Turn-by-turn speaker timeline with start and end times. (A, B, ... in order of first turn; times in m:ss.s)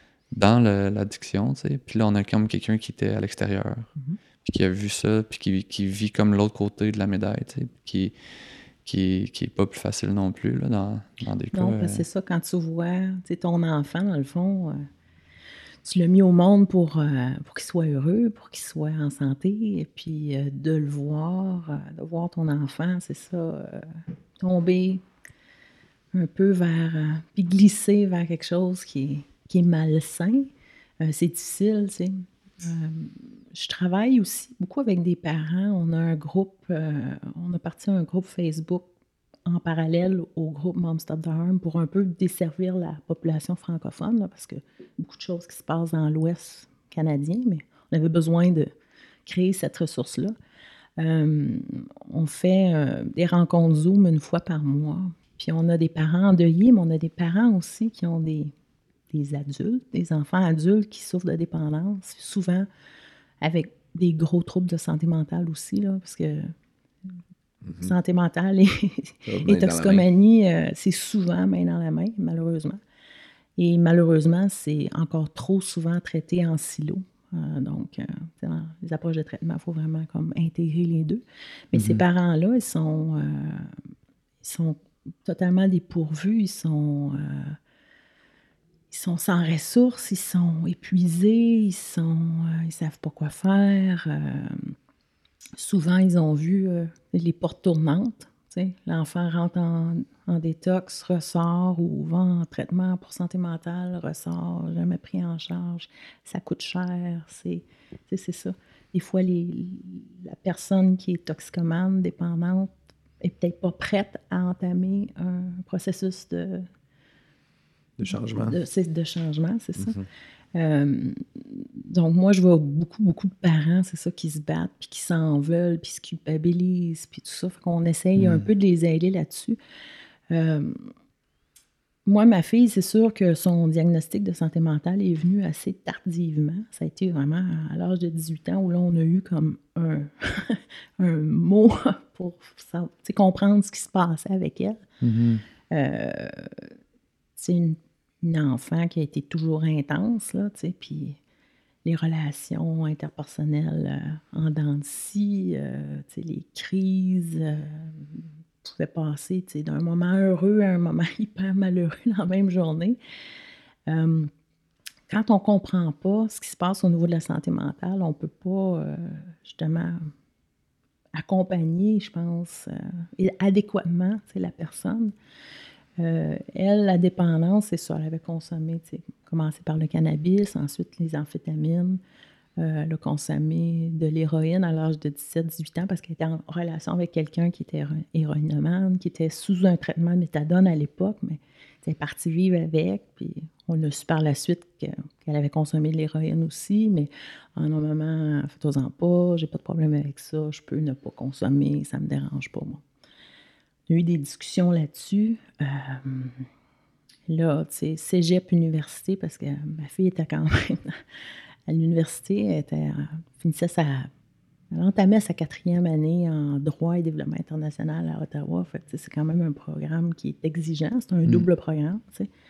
0:00.3-0:03.9 A
0:04.4-0:08.1 A
0:08.8-0:12.0 A
0:11.5-0:14.9 B
0:15.8-0:23.9 B
0:24.4-0:25.0 B
0:26.1-0:30.5 B
0:31.0-0:38.9 B
0:39.4-0:48.7 B
0:49.2-0:50.3 B
0:51.0-0:58.5 B
0:59.1-1:02.7 B
1:03.4-1:06.5 B
1:07.6-1:07.9 C
1:07.8-1:12.8 B
1:09.3-1:10.1 C
1:13.6-1:23.7 B
1:21.7-1:22.0 A
1:24.4-1:27.6 B
1:28.9-1:34.7 B
1:35.6-1:56.7 B
1:58.0-1:58.6 C
1:58.1-2:00.0 B
1:59.8-2:00.0 C
2:00.5-2:09.6 B
2:08.2-2:08.4 C
2:10.3-2:10.9 B
2:12.0-2:24.8 B
2:25.0-2:25.4 A
2:25.7-2:26.7 B
2:27.4-2:31.2 B
2:31.8-2:43.0 B
2:43.9-2:44.3 B
2:45.1-2:50.1 B
2:51.1-2:55.1 B
2:56.0-3:02.0 B
3:02.6-3:22.8 B
3:23.9-3:26.4 B
3:27.3-3:31.0 B
3:31.7-3:34.1 B
3:34.7-3:42.3 B